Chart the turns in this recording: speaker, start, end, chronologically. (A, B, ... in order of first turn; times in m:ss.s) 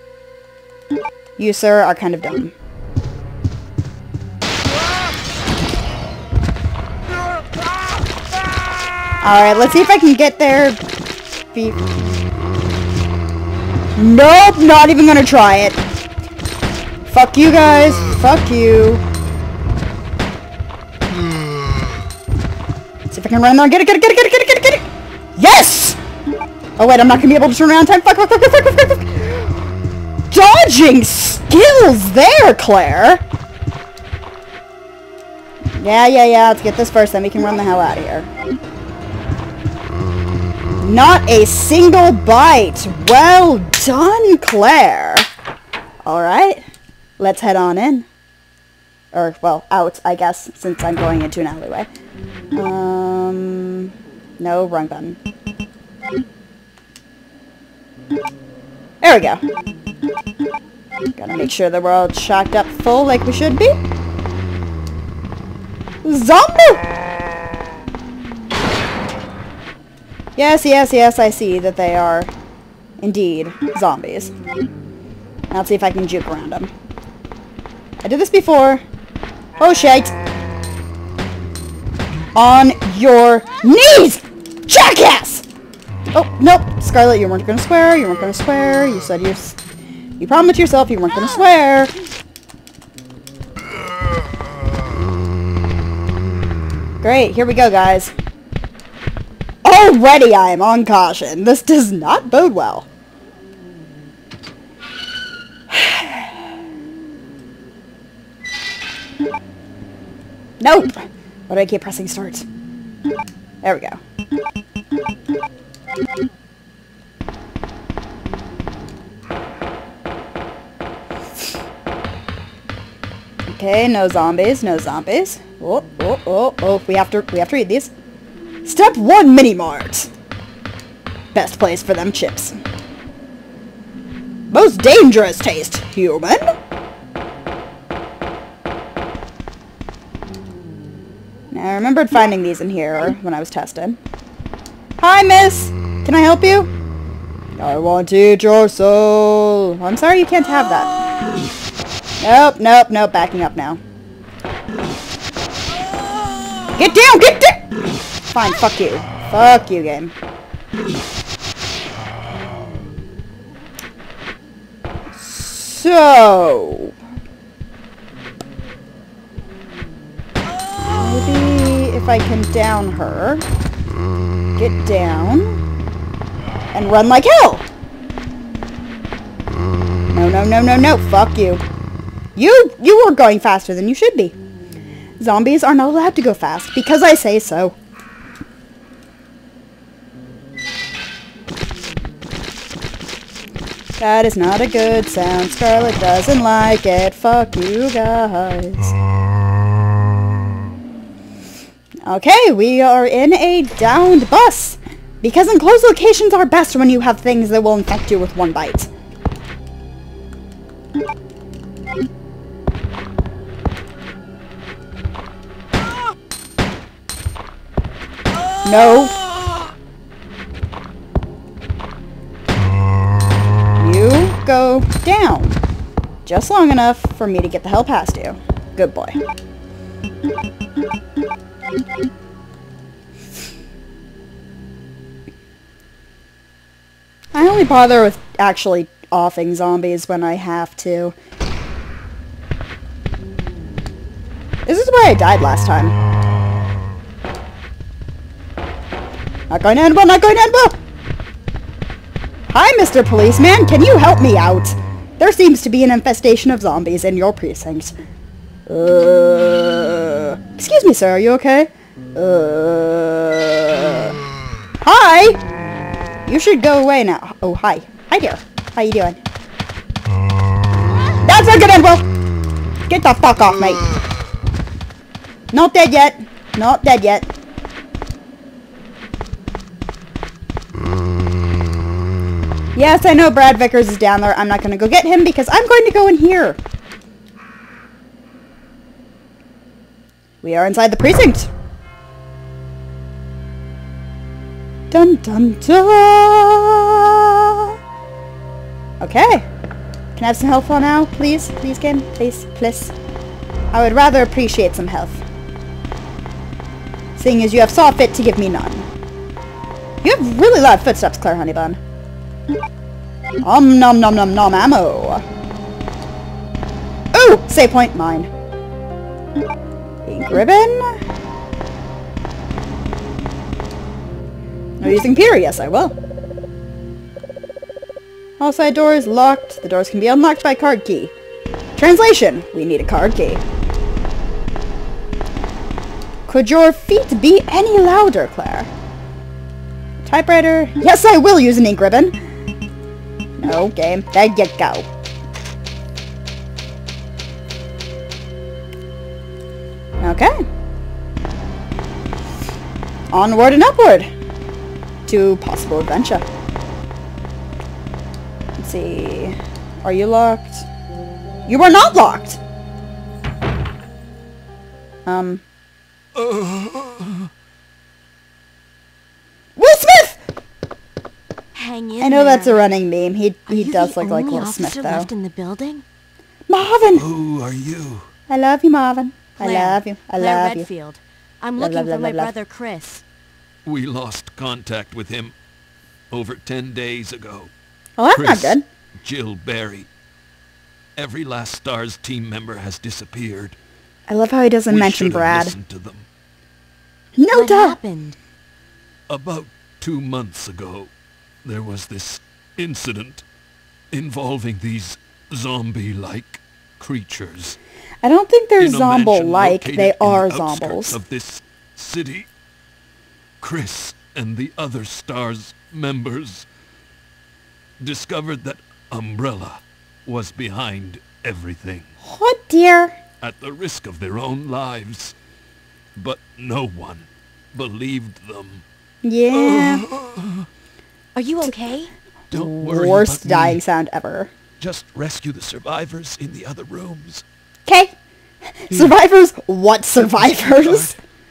0:01.4-0:02.5 A
0:09.2-0:10.8 A
0:11.5-0:11.9 A
0:14.0-0:15.8 A
0:17.1-0:19.0 A
0:23.1-0:26.0 A
0:26.8-0:29.6 A
0:30.3-0:33.2 A
0:35.8-0:38.3 A
0:40.8-0:45.3 A
0:46.0-0:46.6 A
0:47.2-0:48.1 A
0:49.1-0:51.9 A
0:52.5-0:55.2 A
0:59.0-0:59.4 A
1:01.2-1:03.7 A
1:06.0-1:06.8 A
1:10.4-1:12.3 A
1:13.0-1:14.3 A
1:15.5-1:16.7 A
1:18.0-1:18.8 A
1:19.6-1:20.1 A
1:22.3-1:25.4 A
1:26.1-1:29.6 A
1:30.2-1:31.9 A
1:31.1-1:31.4 B
1:37.0-1:38.1 A
1:39.6-1:42.9 A
1:45.7-1:46.3 A
1:50.6-1:52.4 A
1:53.6-1:54.0 A
2:03.5-2:07.9 A
2:08.6-2:10.1 A
2:11.3-2:12.6 A
2:14.5-2:16.4 A
2:21.5-2:24.0 A
2:25.0-2:26.7 A
2:27.6-2:30.9 A
2:32.2-2:33.8 A
2:36.7-2:37.6 A
2:38.3-2:40.1 A
2:45.2-2:46.9 A
2:50.9-2:53.4 A
2:54.6-2:55.6 A
2:56.7-2:57.6 A
3:00.1-3:01.6 A
3:02.4-3:04.3 A
3:05.2-3:07.8 A
3:14.0-3:19.0 A
3:22.0-3:28.9 A
3:38.6-3:39.2 A
3:43.8-3:45.6 A
3:46.2-3:49.2 A
3:57.3-4:01.1 A
4:04.6-4:05.9 A
4:09.5-4:10.7 A
4:12.5-4:17.9 A
4:18.7-4:24.1 A
4:24.8-4:25.4 A
4:26.2-4:29.2 A
4:31.2-4:32.0 A
4:32.9-4:33.9 A
4:35.5-4:37.3 A
4:42.7-4:46.6 A
4:50.4-4:51.5 A
4:54.9-4:57.7 A
4:59.0-4:59.5 A
5:00.2-5:02.9 A
5:03.7-5:05.2 A
5:07.2-5:08.9 A
5:10.0-5:11.8 A
5:13.4-5:15.2 A
5:17.1-5:18.3 A
5:20.0-5:21.0 A
5:24.8-5:25.9 A
5:28.4-5:31.1 A
5:31.8-5:33.4 A
5:36.3-5:38.7 A
5:40.0-5:42.1 A
5:43.4-5:44.9 A
5:50.0-5:50.3 A
5:53.1-5:54.1 A
5:55.0-5:56.2 A
5:58.6-6:00.7 A
6:01.5-6:02.4 A
6:05.0-6:05.4 A
6:06.2-6:07.3 C
6:09.6-6:10.2 A
6:11.5-6:12.6 B
6:12.0-6:15.1 A
6:13.5-6:15.8 B
6:16.5-6:17.1 A
6:16.9-6:18.1 C
6:18.3-6:20.7 A
6:19.4-6:23.0 B
6:21.6-6:22.3 A
6:23.6-6:25.3 C
6:26.1-6:27.5 C
6:28.0-6:28.6 A
6:28.1-6:29.9 C
6:31.0-6:33.6 C
6:34.1-6:35.6 A
6:34.7-6:36.0 C
6:37.2-6:37.8 A
6:37.3-6:38.2 B
6:39.1-6:40.9 C
6:41.4-6:43.2 C
6:43.9-6:47.6 C
6:48.0-6:51.0 A
6:48.6-6:52.3 C
6:53.4-6:56.5 C
6:57.8-7:01.9 C
7:02.0-7:03.0 A
7:03.2-7:05.1 C
7:06.0-7:08.6 C
7:09.0-7:09.8 A
7:09.3-7:10.5 C
7:11.1-7:11.9 B
7:12.3-7:13.6 C
7:12.3-7:14.3 A
7:14.6-7:17.2 C
7:17.6-7:17.9 A
7:18.6-7:20.9 A
7:20.2-7:21.0 C